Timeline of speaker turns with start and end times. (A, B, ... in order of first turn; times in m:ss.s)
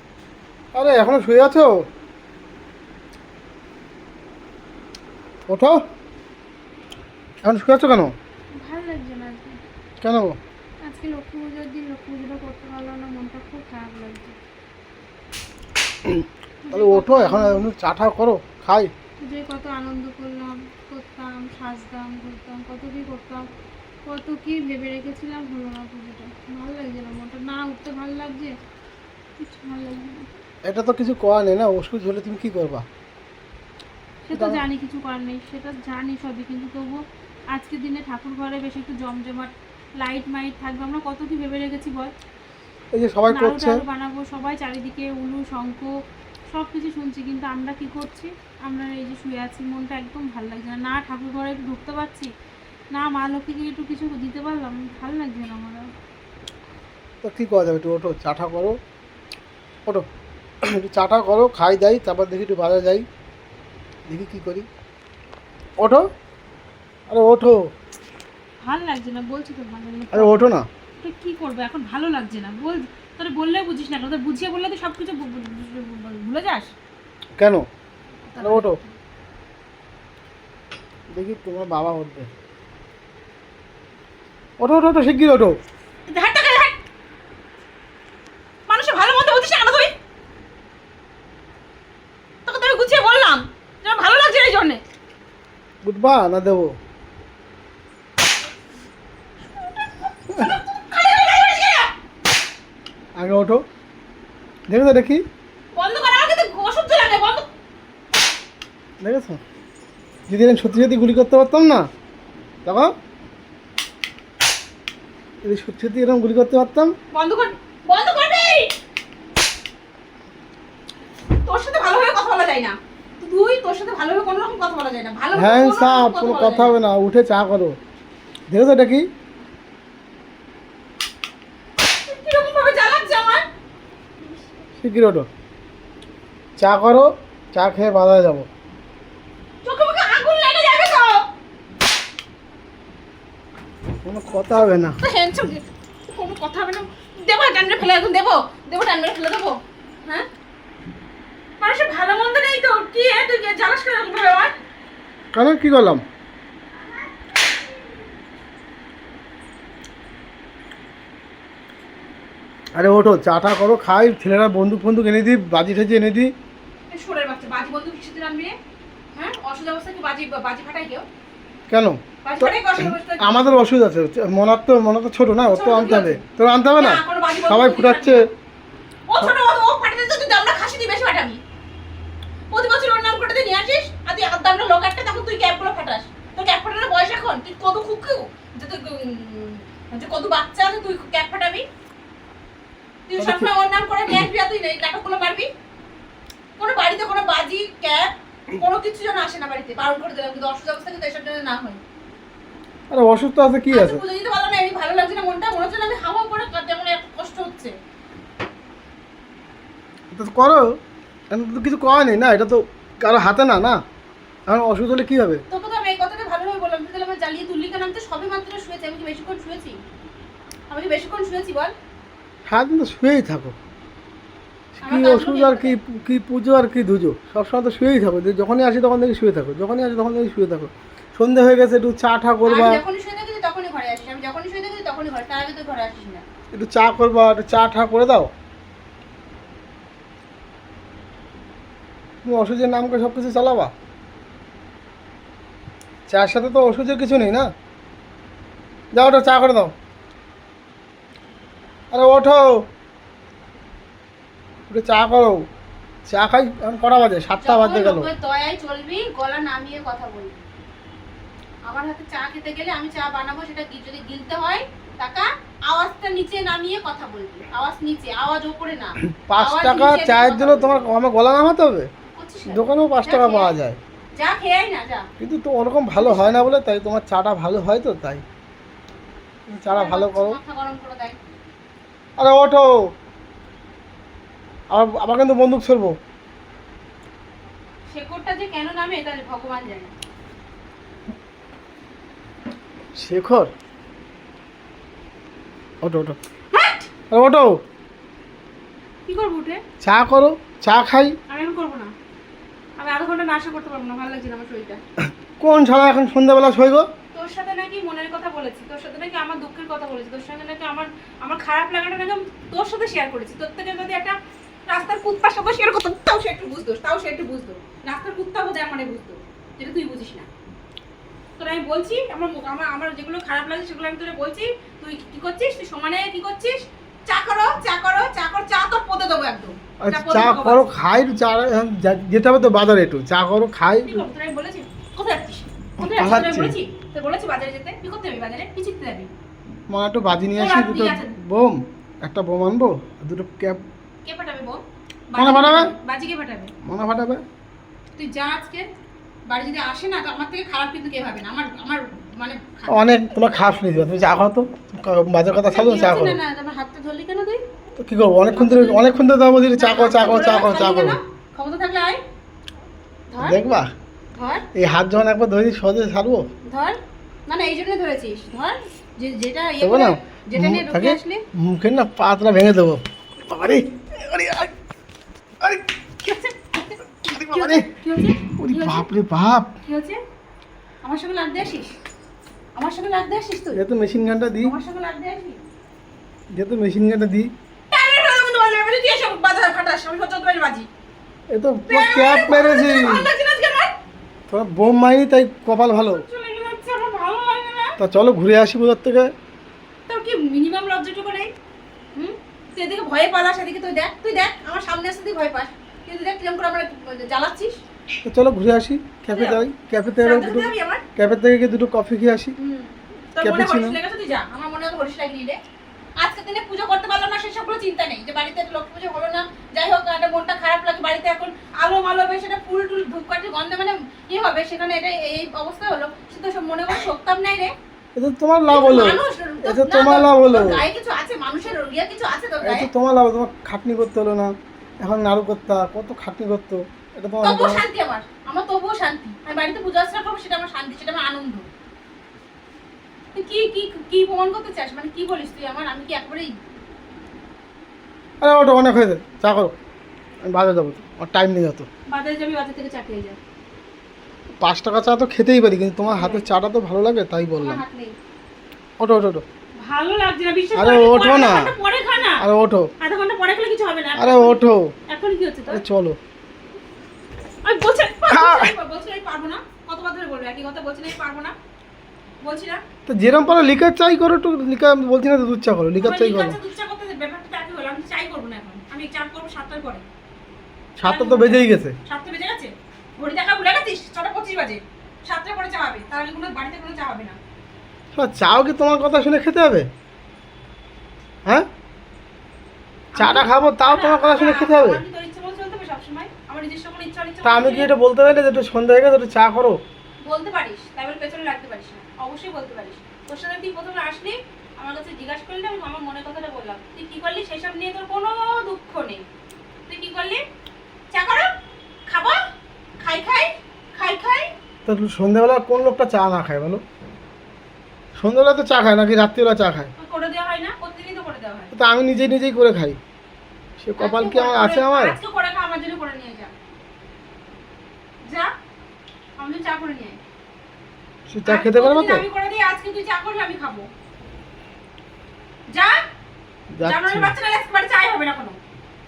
0:00.7-0:01.9 A
0:05.5-0:05.8 A
0:07.4-0:08.1 A
0:08.6-0:09.6 B
0:10.0-0:10.4 A
0:10.9-0:14.4 B
0:16.0-0:18.9 A
0:16.6-0:17.7 B
0:19.2-0:23.4 B
0:24.1-0:28.5 B
0:29.4-0:30.4 B
0:30.7-0:32.8 A
0:34.3-0:42.1 B
0:34.3-0:34.6 A
0:42.9-0:43.8 A
0:43.3-0:46.0 B
0:46.5-0:52.3 B
0:52.9-0:55.9 B
0:57.2-0:58.8 A
1:00.6-1:03.0 A
1:04.1-1:04.7 A
1:05.8-1:06.1 A
1:07.1-1:07.7 A
1:08.6-1:10.4 B
1:10.1-1:10.7 A
1:11.0-1:16.7 B
1:17.4-1:17.6 A
1:18.3-1:18.9 B
1:18.4-1:18.8 A
1:21.1-1:22.3 A
1:24.6-1:25.6 A
1:26.1-1:26.8 B
1:28.7-1:29.9 B
1:32.5-1:34.8 B
1:35.8-1:36.7 A
1:40.4-1:41.9 B
1:43.2-1:43.6 A
1:44.7-1:45.2 A
1:45.8-1:47.5 B
1:49.0-1:49.4 A
1:50.3-1:51.9 A
1:52.6-1:52.9 A
1:55.4-1:56.9 A
1:57.1-1:58.7 B
2:01.4-2:06.7 B
2:05.4-2:07.8 A
2:08.5-2:09.1 A
2:11.9-2:13.5 B
2:14.8-2:15.3 A
2:16.6-2:18.5 A
2:19.6-2:21.2 B
2:24.0-2:25.0 A
2:25.0-2:30.3 B
2:31.6-2:34.5 B
2:35.3-2:36.0 A
2:42.8-2:46.3 A
2:46.9-2:48.6 B
2:49.1-2:51.0 B
2:51.7-2:58.3 A
2:52.2-2:53.4 B
2:55.5-2:56.2 B
2:56.8-2:58.3 B
2:59.1-3:01.4 B
3:02.5-3:11.7 B
3:13.1-3:15.5 B
3:13.2-3:13.5 A
3:16.6-3:21.8 B
3:22.9-3:24.0 A
3:23.7-3:27.7 B
3:30.1-3:30.7 A
3:31.3-3:33.8 A
3:34.5-3:35.4 A
3:35.5-3:39.8 B
3:40.7-3:41.7 B
3:42.5-3:43.5 A
3:44.8-3:52.8 A
3:44.8-3:45.8 B
3:52.4-3:56.2 B
3:56.5-3:58.3 A
4:02.2-4:03.7 A
4:06.1-4:07.5 A
4:08.9-4:09.7 A
4:11.9-4:12.6 A
4:14.7-4:15.4 A
4:16.1-4:18.1 A
4:17.4-4:20.5 B
4:21.7-4:30.9 B
4:29.1-4:31.9 A
4:32.1-4:33.6 B
4:32.5-4:33.8 A
4:34.2-4:35.1 B
4:35.2-4:38.2 A
4:35.9-4:36.4 B
4:39.5-4:40.4 A
4:39.7-4:41.2 B
4:42.2-4:42.9 A
4:44.7-4:46.0 A
4:47.9-4:49.9 B
4:53.0-4:53.5 A
4:55.8-4:56.2 A
4:56.5-4:56.9 B
4:57.1-4:57.6 A
4:59.1-4:59.6 B
4:59.8-5:01.2 A
5:01.3-5:01.9 B
5:02.8-5:04.8 B
5:05.4-5:06.9 A
5:07.1-5:14.2 B
5:14.7-5:20.3 B
5:21.4-5:30.7 B
5:29.8-5:34.1 A
5:33.8-5:39.1 B
5:35.8-5:36.6 A
5:39.7-5:43.6 A
5:40.4-5:41.2 B
5:44.0-5:46.5 B
5:45.2-5:45.7 A
5:46.6-5:47.2 A
5:48.0-5:48.6 B
5:49.3-5:52.9 B
5:52.7-5:56.2 A
5:55.5-5:57.4 B
5:57.8-6:01.0 A
5:58.3-5:58.9 B
5:59.6-6:02.0 B
6:03.1-6:03.4 B
6:03.2-6:03.7 A
6:04.1-6:04.5 B
6:04.5-6:06.3 A
6:06.5-6:11.2 B
6:09.6-6:14.5 A
6:15.4-6:15.6 A
6:16.0-6:18.9 B
6:17.1-6:17.7 A
6:18.4-6:19.5 A
6:19.6-6:20.0 B
6:20.8-6:21.7 B
6:22.6-6:23.6 B
6:23.5-6:24.6 A
6:24.4-6:25.4 B
6:26.3-6:27.3 A
6:27.7-6:30.7 B
6:31.3-6:33.1 A
6:31.7-6:33.7 B
6:34.3-6:36.0 A
6:35.8-6:37.8 B
6:37.8-6:39.1 A
6:39.9-6:41.3 B
6:41.9-6:47.6 B
6:48.0-6:52.4 A
6:49.1-6:49.4 B
6:50.0-6:50.8 B
6:52.4-6:55.4 B
6:53.2-6:53.8 A
6:56.0-7:07.5 B
7:08.0-7:10.6 A
7:08.5-7:12.7 B
7:12.4-7:17.6 A
7:17.2-7:21.5 B
7:23.1-7:26.3 B
7:28.2-7:29.5 A
7:30.2-7:31.7 A
7:31.9-7:33.2 B
7:34.4-7:37.6 A
7:35.9-7:36.3 B
7:37.4-7:38.0 B
7:38.8-7:39.2 A
7:39.6-7:42.2 B
7:40.5-7:41.5 A
7:42.2-7:42.7 A
7:42.8-7:45.6 B
7:44.0-7:44.7 A
7:45.5-7:46.0 A
7:47.4-7:51.4 B
7:48.1-7:48.5 A
7:52.2-7:52.6 B
7:52.9-7:56.4 A
7:55.8-7:59.9 B
8:00.8-8:01.8 A
8:00.8-8:07.2 B
8:08.0-8:09.7 A
8:12.9-8:17.7 B
8:13.0-8:14.8 A
8:17.2-8:19.6 A
8:20.0-8:29.1 B
8:29.7-8:30.2 B
8:30.9-8:31.3 B
8:31.9-8:32.2 B
8:32.8-8:34.3 B
8:34.7-8:36.6 A
8:38.0-8:39.7 A
8:39.8-8:41.5 B
8:41.5-8:42.8 A
8:43.6-8:45.0 A
8:43.8-8:46.3 B
8:49.2-8:50.0 B
8:51.1-8:52.0 A
8:51.3-8:53.7 B
8:55.5-8:55.8 B
8:56.5-8:57.1 A
8:56.6-8:58.4 B